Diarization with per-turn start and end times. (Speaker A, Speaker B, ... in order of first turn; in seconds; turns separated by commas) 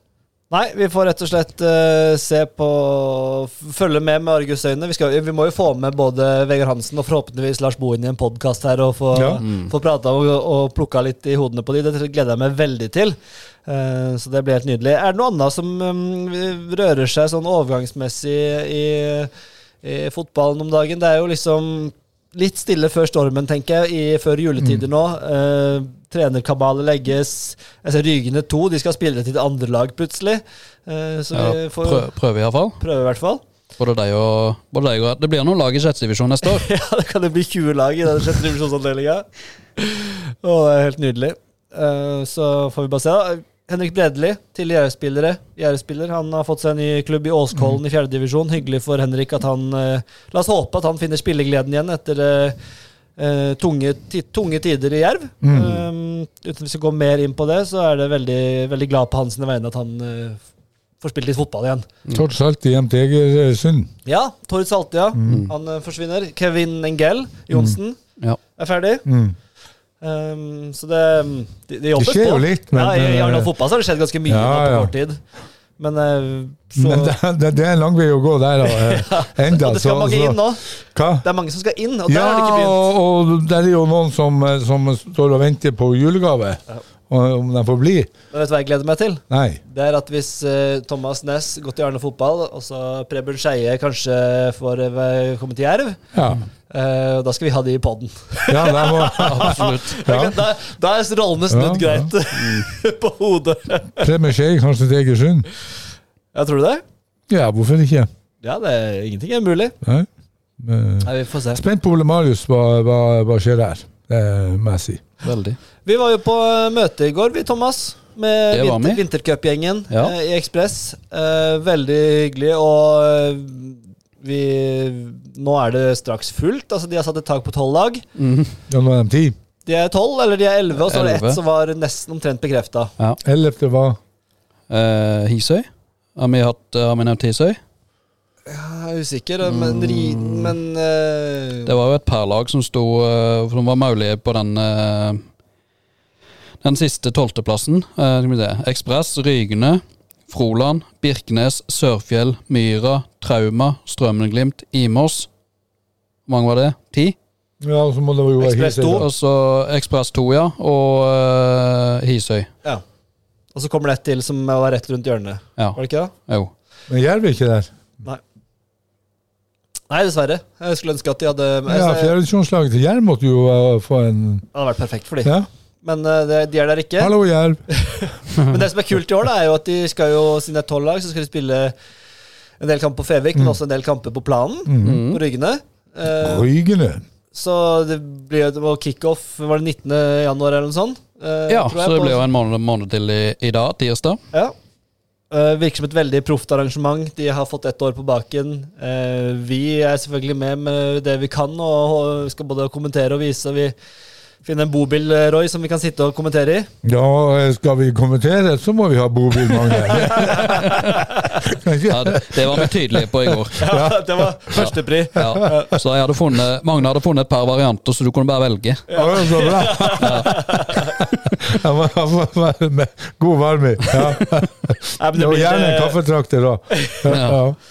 Speaker A: 0.5-19.3, Speaker B: 9.1-9.4, Speaker C: 9.4-9.7, Speaker A: 19.8-32.1, Speaker C: 31.3-32.8, Speaker A: 32.8-33.4, Speaker C: 33.8-36.7, Speaker A: 36.4-39.3, Speaker A: 39.8-52.6, Speaker A: 53.2-60.4, Speaker B: 55.4-55.9, Speaker A: 61.0-61.9, Speaker B: 62.1-63.9, Speaker A: 64.1-68.0, Speaker B: 65.2-65.5, Speaker B: 67.5-67.8, Speaker A: 68.6-69.0, Speaker B: 69.1-69.4, Speaker A: 70.0-75.2, Speaker B: 72.0-73.5, Speaker B: 74.3-74.9, Speaker A: 75.8-77.2, Speaker B: 76.8-80.4, Speaker A: 78.7-80.6, Speaker B: 81.0-81.3, Speaker A: 81.2-82.8, Speaker B: 82.1-88.1, Speaker A: 88.3-96.0, Speaker B: 89.3-89.6, Speaker B: 96.1-96.4, Speaker A: 96.7-104.1, Speaker B: 98.5-100.4, Speaker C: 99.2-100.0, Speaker B: 101.5-102.1, Speaker C: 102.4-102.7, Speaker B: 104.0-105.5, Speaker A: 106.3-106.8, Speaker B: 107.3-108.1, Speaker A: 108.4-109.8, Speaker B: 109.8-110.1, Speaker B: 110.6-115.0, Speaker A: 111.0-111.6, Speaker C: 115.2-115.6, Speaker A: 115.8-128.1, Speaker C: 118.5-119.0, Speaker C: 128.2-128.6, Speaker B: 128.7-129.4, Speaker A: 129.7-132.9, Speaker C: 130.8-131.4, Speaker B: 133.2-134.0, Speaker C: 134.7-137.6, Speaker A: 138.5-141.7, Speaker C: 139.4-140.6, Speaker C: 141.7-145.2, Speaker C: 146.6-155.3, Speaker C: 156.3-157.2, Speaker B: 157.6-159.1, Speaker A: 158.4-159.1, Speaker C: 159.0-162.5, Speaker A: 163.5-166.1, Speaker C: 165.6-166.5, Speaker B: 166.9-167.7, Speaker A: 169.9-172.2, Speaker B: 171.7-174.5, Speaker A: 174.5-177.1, Speaker B: 177.0-177.7, Speaker A: 177.7-181.7, Speaker A: 182.6-186.5, Speaker B: 184.7-185.0, Speaker C: 184.8-185.2, Speaker B: 186.2-187.0, Speaker A: 187.3-192.2, Speaker C: 191.5-194.2, Speaker A: 195.3-203.8, Speaker A: 204.4-206.7, Speaker B: 206.8-210.9, Speaker C: 210.0-211.1, Speaker A: 210.0-211.4, Speaker B: 211.4-214.6, Speaker C: 211.9-213.6, Speaker A: 213.6-215.8, Speaker C: 214.6-218.9, Speaker B: 215.2-215.5, Speaker A: 218.9-221.0, Speaker B: 218.9-227.6, Speaker C: 220.0-220.4, Speaker C: 223.9-224.2, Speaker A: 225.0-226.0, Speaker A: 226.7-227.0, Speaker C: 227.1-227.4